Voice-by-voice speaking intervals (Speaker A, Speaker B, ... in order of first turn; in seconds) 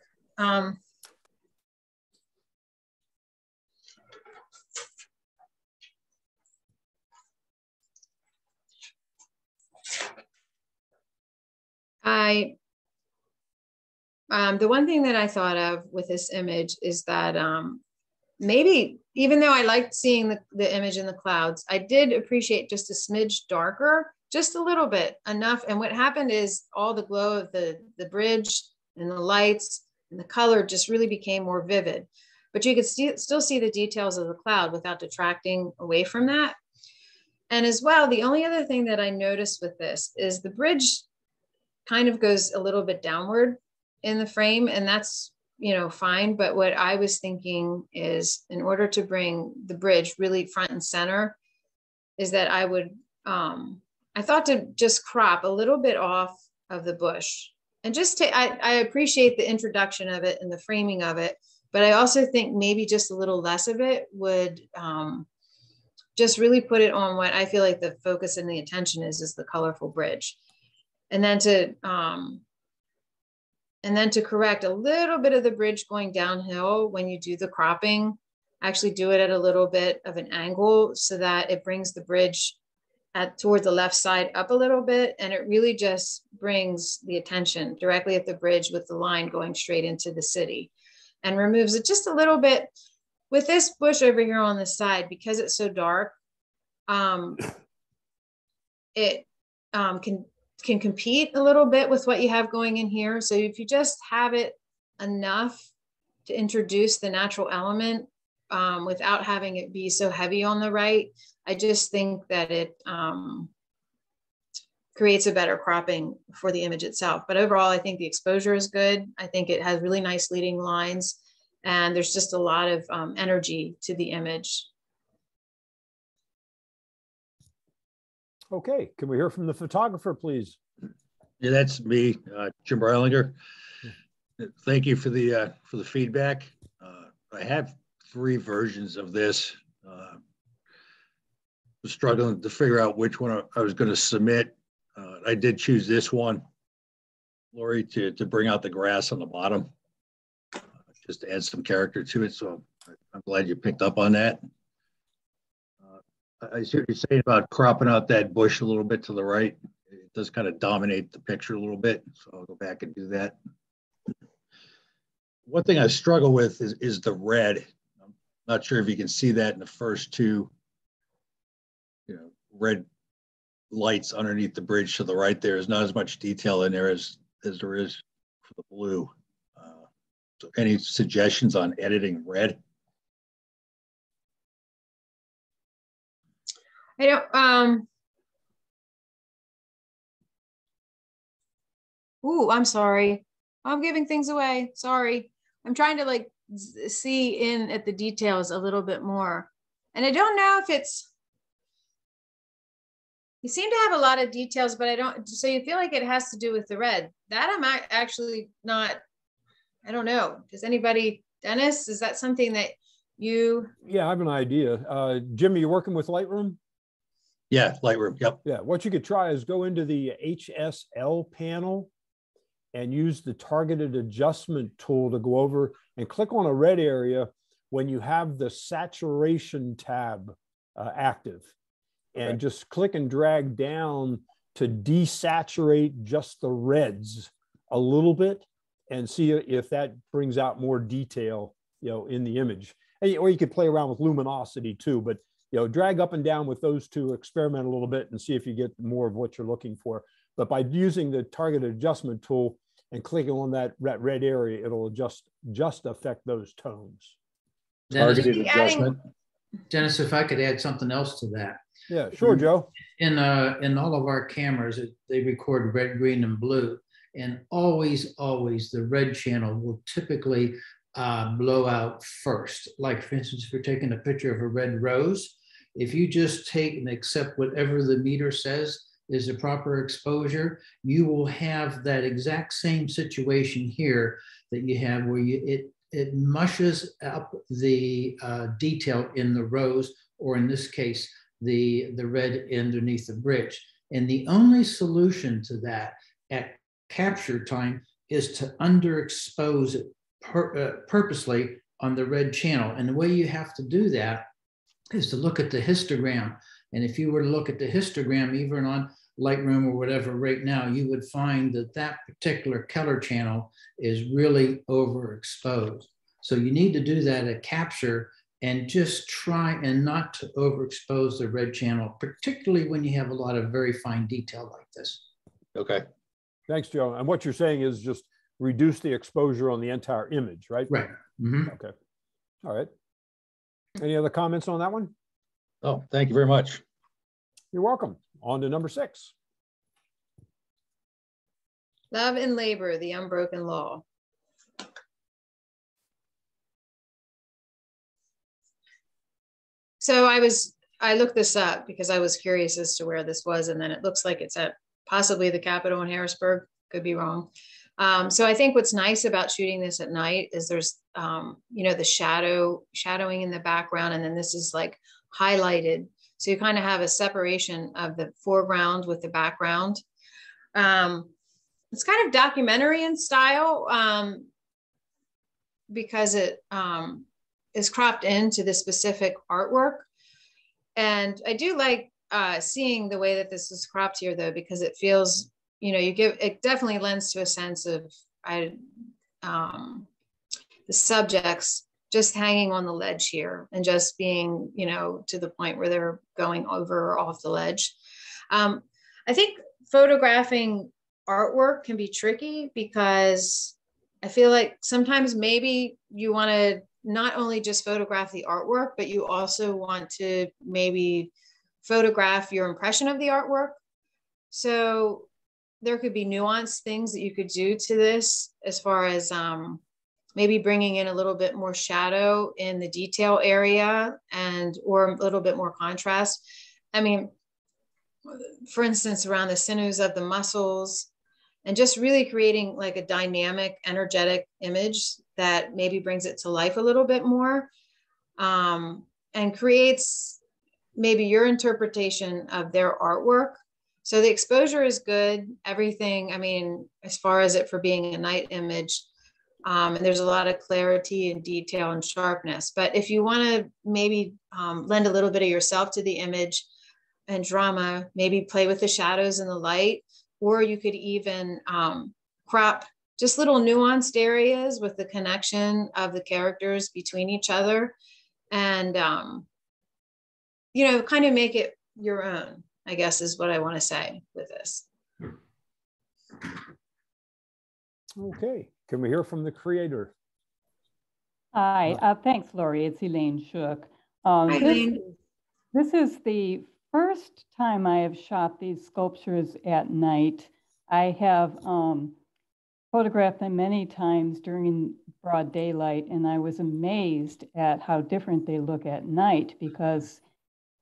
Speaker A: 0.4-0.8, 12.0-12.5, 14.3-17.8, 18.4-36.5, 37.5-41.0, 41.9-51.4, 52.2-65.3, 66.2-70.4, 71.1-72.4, 73.8-82.6, 83.1-90.7, 91.2-92.7, 93.3-96.1, 96.9-97.4, 99.0-105.7, 106.3-113.5, 115.0-124.7, 187.0-187.9, 192.2-201.1, 203.4-209.0, 209.8-213.7, 258.2-258.9, 341.9-343.8, 349.8-369.8, 370.6-371.1, 371.7-374.3, 375.7-379.9, 380.8-388.6, 389.2-389.9, 390.7-397.8, 398.3-411.1, 411.6-413.6, 414.3-415.1, 415.6-419.6, 420.2-426.2, 426.7-427.1, 428.1-430.9, 431.4-437.5, 438.2-440.2, 440.8-448.9, 449.4-456.4, 457.1-467.7, 468.3-469.3, 470.5-474.6, 484.3-484.8
Speaker B: 128.5-130.6, 213.8-216.6, 218.4-221.9, 222.7-231.5, 232.2-257.1, 258.0-258.9, 261.9-262.7, 326.5-330.7, 331.5-331.7, 332.4-332.7, 333.8-334.9, 337.5-339.1, 478.0-479.9
Speaker C: 131.4-133.4, 134.4-140.2, 141.8-146.4, 147.5-149.7, 151.0-154.4, 155.9-163.4, 165.5-167.7, 168.5-170.5, 172.1-172.9, 173.7-179.8, 180.4-182.6, 217.5-218.4, 325.6-325.9, 335.6-336.6
Speaker D: 257.9-258.9, 259.7-261.6, 263.0-304.3, 304.9-325.0, 330.7-331.5
Speaker E: 481.3-484.9, 485.5-492.0, 492.7-500.0